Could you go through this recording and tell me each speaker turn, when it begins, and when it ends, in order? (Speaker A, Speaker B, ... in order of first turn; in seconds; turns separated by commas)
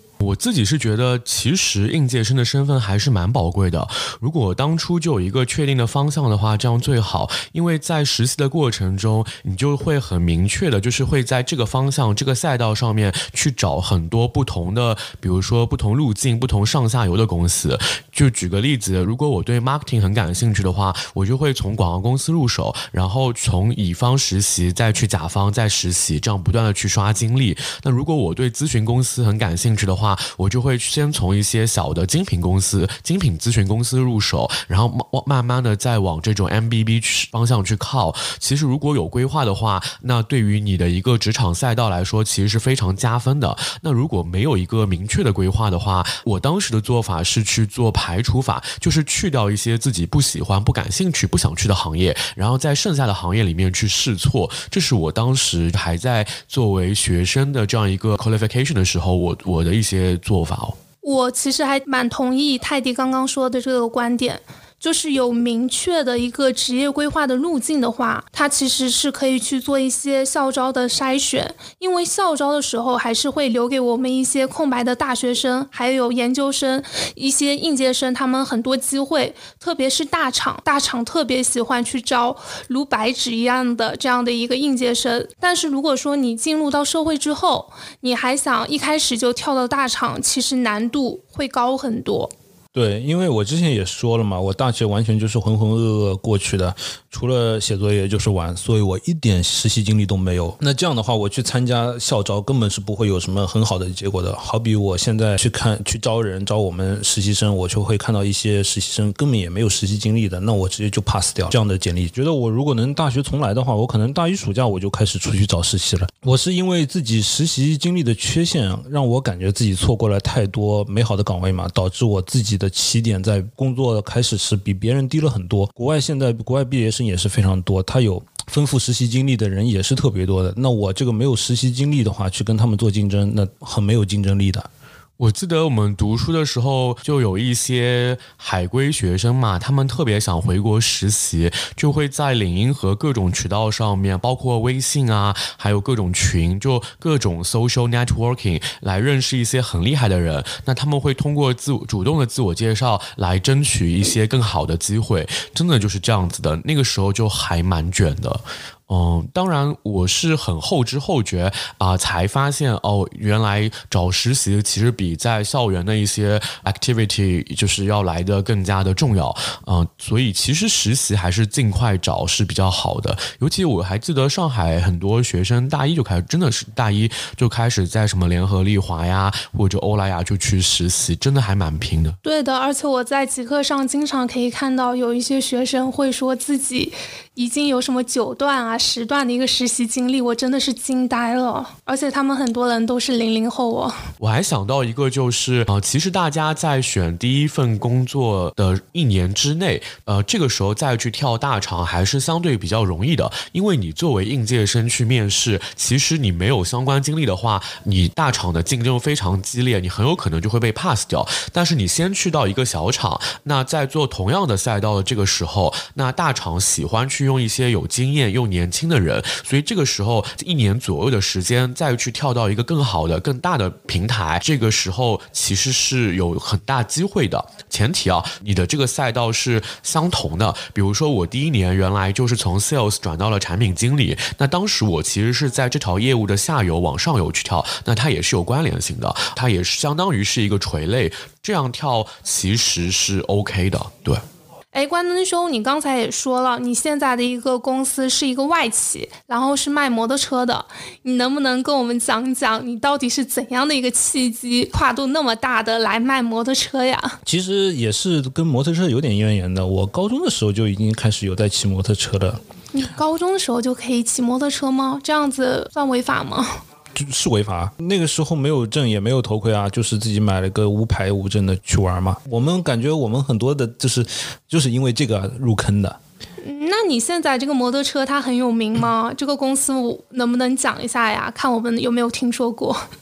Speaker A: 0.2-60.8, Speaker B: 61.0-92.3, Speaker C: 92.7-134.7, Speaker A: 135.2-182.2, Speaker B: 182.2-194.0, Speaker A: 194.2-244.2, Speaker B: 244.7-257.2, Speaker C: 257.2-262.4, Speaker B: 262.7-266.6, Speaker C: 266.9-276.0, Speaker B: 276.4-282.9